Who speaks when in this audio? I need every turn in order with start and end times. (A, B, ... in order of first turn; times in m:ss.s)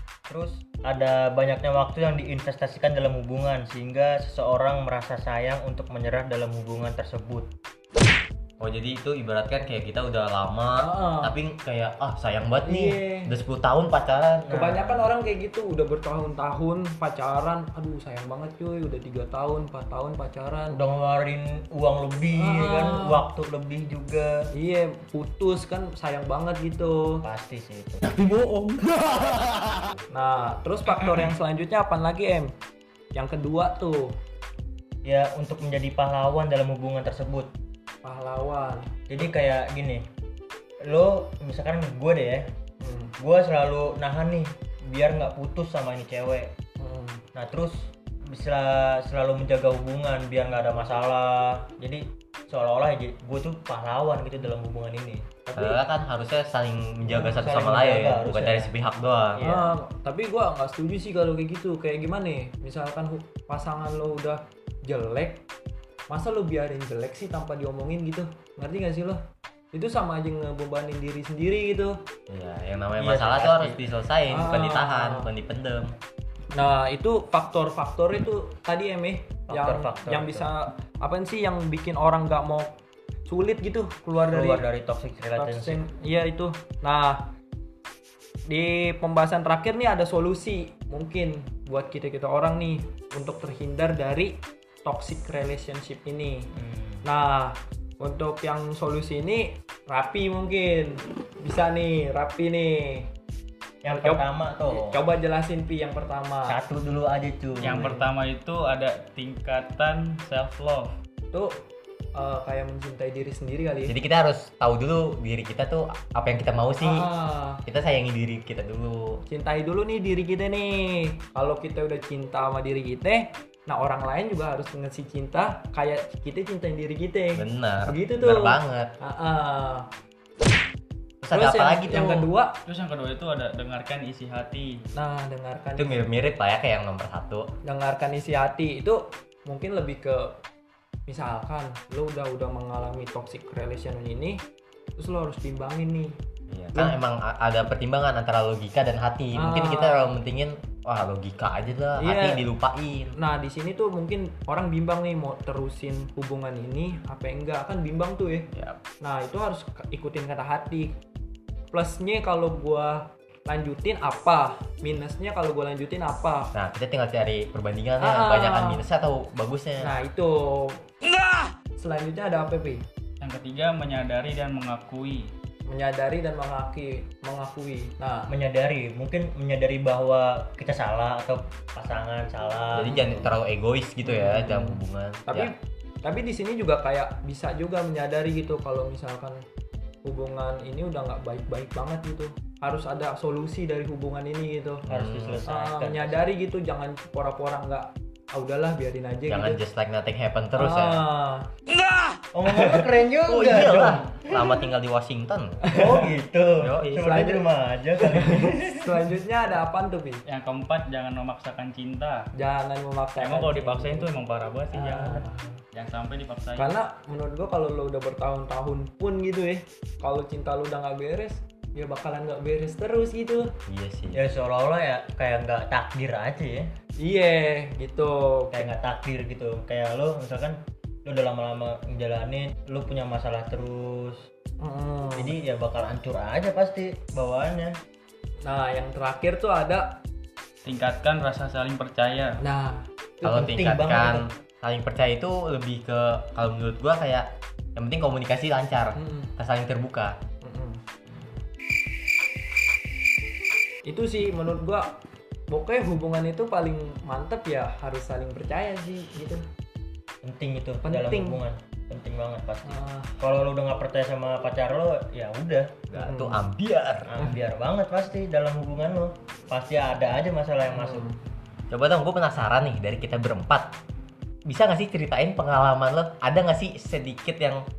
0:00.3-0:07.5 A
0:08.6-0:14.5 B
0:10.8-0:11.4 C
0:12.6-0:13.3 C
0:14.4-0:15.1 A
0:14.5-0:20.8 C
0:20.7-0:24.4 A
0:22.4-0:23.2 C
0:24.5-0:27.2 C
0:27.2-0:28.0 A
0:30.1-0:32.5 C
0:33.1-0:34.1 C
0:35.0-0:37.5 A
0:38.0-0:38.9 C
0:39.1-0:40.0 A
0:40.8-0:42.5 A
0:42.8-0:43.1 C
0:43.2-0:46.5 A
0:46.8-0:47.2 C
0:47.3-0:55.3 A
0:55.5-0:55.8 C
0:55.5-0:59.4 B
0:57.1-0:58.7 A
0:59.4-0:59.7 A
0:59.4-1:05.4 C
1:06.1-1:09.2 C
1:09.7-1:12.0 C
1:12.3-1:15.9 B
1:13.0-1:13.8 A
1:14.3-1:15.3 C
1:16.5-1:22.8 C
1:19.5-1:20.5 A
1:23.3-1:24.6 C
1:24.3-1:25.8 A
1:25.4-1:27.3 C
1:28.5-1:36.5 C
1:36.5-1:37.0 A
1:37.0-1:43.1 C
1:43.8-1:45.0 A
1:43.9-1:46.6 C
1:46.5-1:48.0 A
1:47.6-1:50.9 D
1:47.6-1:48.1 C
1:51.3-1:53.9 C
1:53.8-1:57.0 B
1:56.8-1:57.6 C
1:57.6-1:59.2 B
1:59.3-2:09.9 C
2:07.4-2:08.9 B
2:11.2-2:12.3 B
2:11.3-2:12.6 C
2:12.6-2:14.8 D
2:14.9-2:16.0 C
2:15.8-2:17.5 B
2:17.6-2:20.4 C
2:21.1-2:24.4 C
2:25.0-2:26.1 C
2:26.5-2:33.1 B
2:29.3-2:30.2 C
2:32.0-2:32.5 C
2:33.2-2:38.5 C
2:38.5-2:38.8 B
2:39.0-2:40.9 C
2:41.7-2:46.5 C
2:46.5-2:50.0 B
2:48.0-2:48.8 C
2:49.8-2:52.8 C
2:53.2-2:55.3 D
2:55.7-2:58.3 C
2:58.3-3:03.3 A
3:02.7-3:05.5 B
3:02.8-3:03.2 C
3:04.0-3:09.4 C
3:10.0-3:14.8 C
3:14.9-3:15.4 B
3:14.9-3:16.3 A
3:15.4-3:19.6 C
3:19.3-3:21.0 B
3:20.6-3:21.5 C
3:22.3-3:24.6 A
3:23.3-3:25.6 B
3:25.6-3:26.1 C
3:25.7-3:29.0 A
3:26.9-3:27.5 C
3:28.0-3:30.2 C
3:30.2-3:32.3 D
3:32.3-3:34.1 C
3:33.2-3:36.8 D
3:34.7-3:35.4 C
3:36.6-3:43.5 C
3:43.7-3:44.2 B
3:44.1-3:46.7 A
3:47.0-3:48.7 C
3:48.5-3:54.2 A
3:54.6-3:55.3 C
3:55.2-3:57.7 A
3:58.4-4:00.0 C
4:00.6-4:02.4 D
4:02.4-4:02.8 C
4:03.2-4:04.2 A
4:03.2-4:10.2 B
4:09.0-4:09.3 C
4:10.4-4:10.8 C
4:13.8-4:14.9 C
4:15.5-4:19.4 C
4:20.2-4:25.8 A
4:20.8-4:21.4 C
4:22.6-4:23.1 C
4:25.9-4:27.1 B
4:26.0-4:26.5 C
4:27.1-4:31.1 A
4:30.7-4:31.2 C
4:31.7-4:33.7 B
4:34.5-4:37.6 B